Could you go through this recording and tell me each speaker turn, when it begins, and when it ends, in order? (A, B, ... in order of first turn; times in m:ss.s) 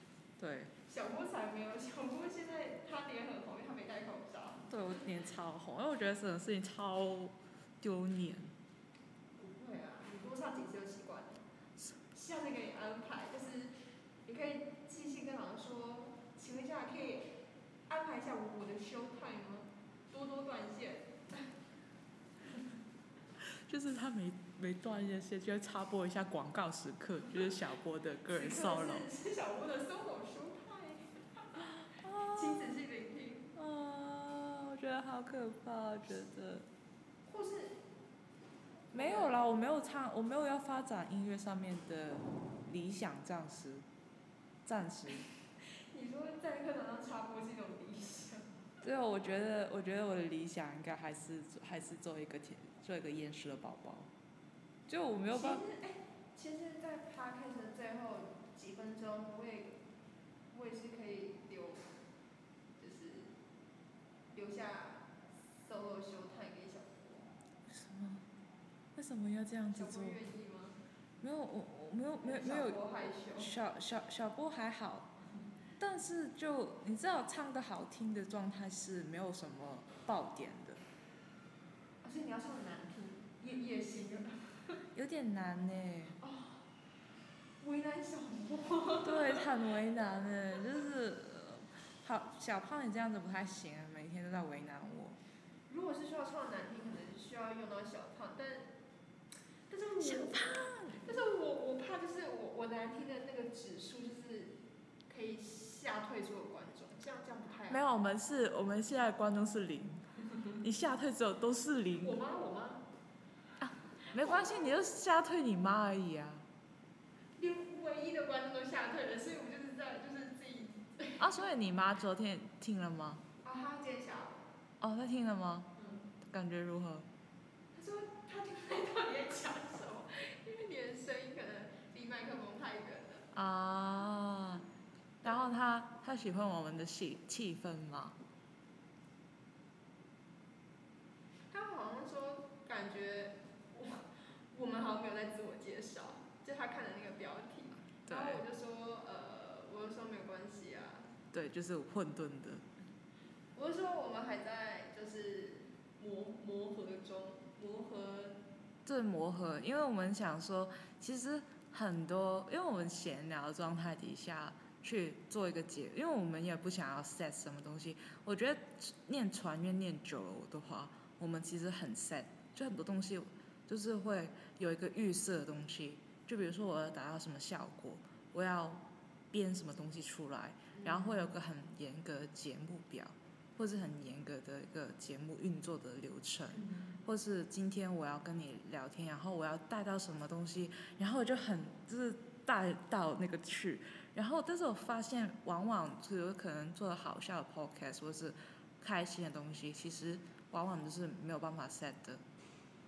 0:00.4-0:00.7 A
0:00.8-0:04.6 B
0:04.7-0:08.5 A
0:09.4-0:11.4 B
0:12.1-0:21.5 B
0:23.4-0:29.1 A
0:28.3-0:31.6 B
0:31.6-0:32.7 A
0:32.3-0:33.5 B
0:33.5-0:36.6 A
0:37.2-0:37.8 B
0:38.9-0:39.4 B
0:38.9-0:43.8 A
0:44.6-0:45.2 A
0:45.6-0:48.5 B
0:48.8-0:54.1 A
0:54.9-0:55.6 A
0:55.3-0:59.8 B
1:00.5-1:01.9 B
1:02.8-1:03.3 B
1:04.3-1:07.3 B
1:07.7-1:08.2 A
1:08.9-1:10.2 A
1:09.7-1:10.8 B
1:11.2-1:15.1 A
1:12.2-1:13.5 B
1:15.8-1:20.8 A
1:22.0-1:24.8 B
1:24.9-1:26.2 A
1:26.2-1:26.6 B
1:27.6-1:29.5 B
1:29.0-1:35.2 A
1:35.7-1:38.7 B
1:39.7-1:47.8 B
1:40.0-1:41.2 A
1:47.7-1:50.0 A
1:50.6-1:52.2 A
1:52.0-1:52.8 B
1:53.6-1:56.5 A
1:54.1-1:54.8 B
1:57.4-2:01.3 B
2:01.2-2:03.2 A
2:03.4-2:04.4 B
2:04.8-2:07.1 A
2:05.8-2:06.1 B
2:07.7-2:13.3 B
2:13.3-2:14.6 A
2:15.2-2:18.2 A
2:21.5-2:31.1 B
2:28.1-2:28.4 A
2:31.3-2:32.6 A
2:33.5-2:38.4 B
2:38.8-3:22.2 A
3:00.7-3:01.2 B
3:06.5-3:06.9 B